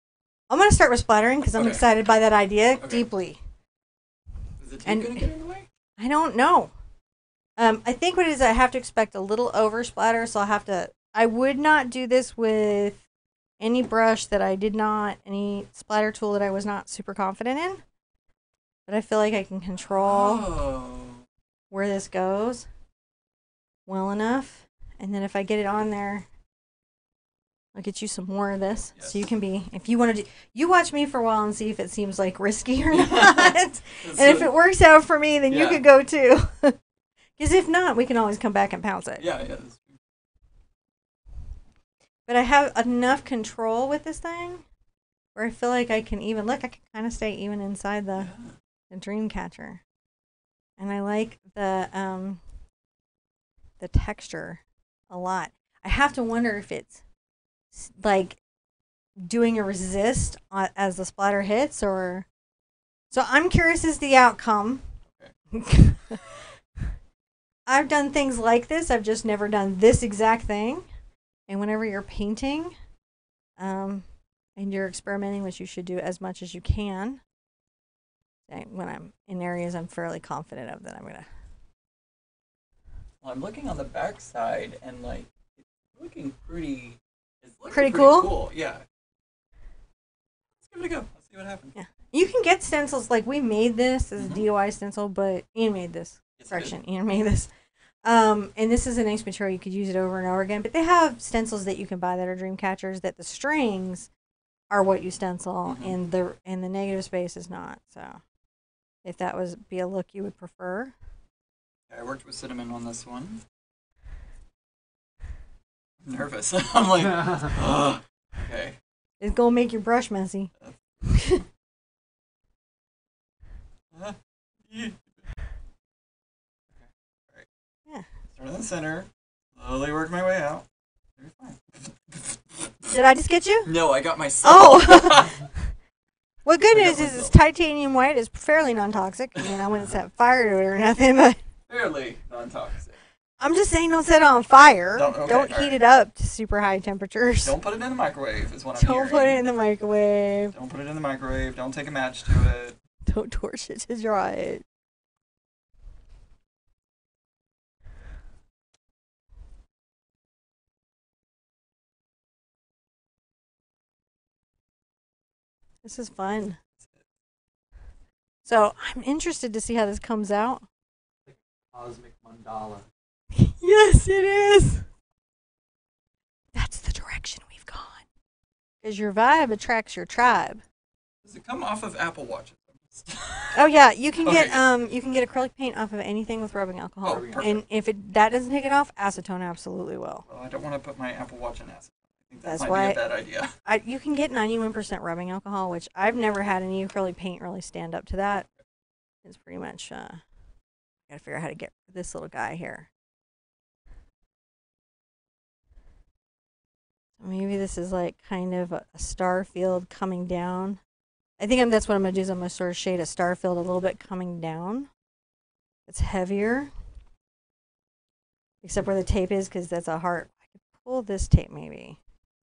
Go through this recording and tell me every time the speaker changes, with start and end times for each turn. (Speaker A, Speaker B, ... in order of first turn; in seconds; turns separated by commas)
Speaker A: 0.5-3.4, Speaker B: 1.5-1.8, Speaker B: 2.8-3.0, Speaker B: 4.6-5.7, Speaker A: 4.8-5.3, Speaker A: 6.0-6.7, Speaker A: 7.6-13.0, Speaker A: 13.6-17.8, Speaker A: 18.9-20.5, Speaker B: 19.9-21.2, Speaker A: 21.7-22.7, Speaker A: 23.9-26.3, Speaker A: 27.7-36.8, Speaker B: 28.9-29.2, Speaker B: 32.9-34.5, Speaker B: 35.5-35.8, Speaker A: 37.4-39.2, Speaker B: 39.2-40.0, Speaker A: 42.3-44.6, Speaker A: 45.3-48.3, Speaker B: 48.2-48.5, Speaker A: 48.9-49.8, Speaker A: 50.8-52.4, Speaker A: 53.8-57.0, Speaker A: 57.7-58.4, Speaker A: 59.2-62.3, Speaker A: 63.1-64.8, Speaker A: 65.5-66.2, Speaker A: 67.7-70.9, Speaker A: 71.5-72.7, Speaker A: 73.6-77.2, Speaker A: 78.5-81.3, Speaker B: 83.2-88.8, Speaker A: 87.7-88.3, Speaker B: 90.6-91.7, Speaker A: 91.7-97.5, Speaker B: 94.2-94.4, Speaker B: 96.4-96.7, Speaker A: 98.0-104.1, Speaker A: 104.7-108.2, Speaker B: 105.6-106.0, Speaker A: 109.0-110.9, Speaker B: 111.9-113.4, Speaker B: 116.0-118.8, Speaker A: 119.2-120.5, Speaker A: 121.0-121.4, Speaker B: 124.7-125.3, Speaker B: 126.8-127.5, Speaker B: 128.3-130.6, Speaker B: 131.2-132.9, Speaker A: 132.9-133.7, Speaker B: 133.7-135.4, Speaker A: 134.4-135.7, Speaker A: 136.4-141.4, Speaker B: 136.7-137.3, Speaker B: 141.7-143.0, Speaker A: 143.4-147.5, Speaker B: 144.9-145.8, Speaker B: 147.4-149.4, Speaker A: 148.8-150.5, Speaker B: 150.5-152.8, Speaker A: 153.1-154.6, Speaker A: 165.8-166.6, Speaker A: 168.4-170.6, Speaker C: 171.2-172.9, Speaker A: 173.3-174.9, Speaker A: 176.5-178.0, Speaker A: 178.8-180.6, Speaker B: 181.2-183.6, Speaker A: 183.5-190.2, Speaker B: 184.2-184.6, Speaker B: 187.0-187.6, Speaker C: 187.1-187.5, Speaker B: 190.3-193.5, Speaker A: 192.4-193.0, Speaker A: 193.6-198.5, Speaker A: 199.2-200.2, Speaker A: 201.1-202.9, Speaker A: 207.2-210.8, Speaker A: 211.4-214.9, Speaker A: 215.9-216.7, Speaker A: 218.6-222.0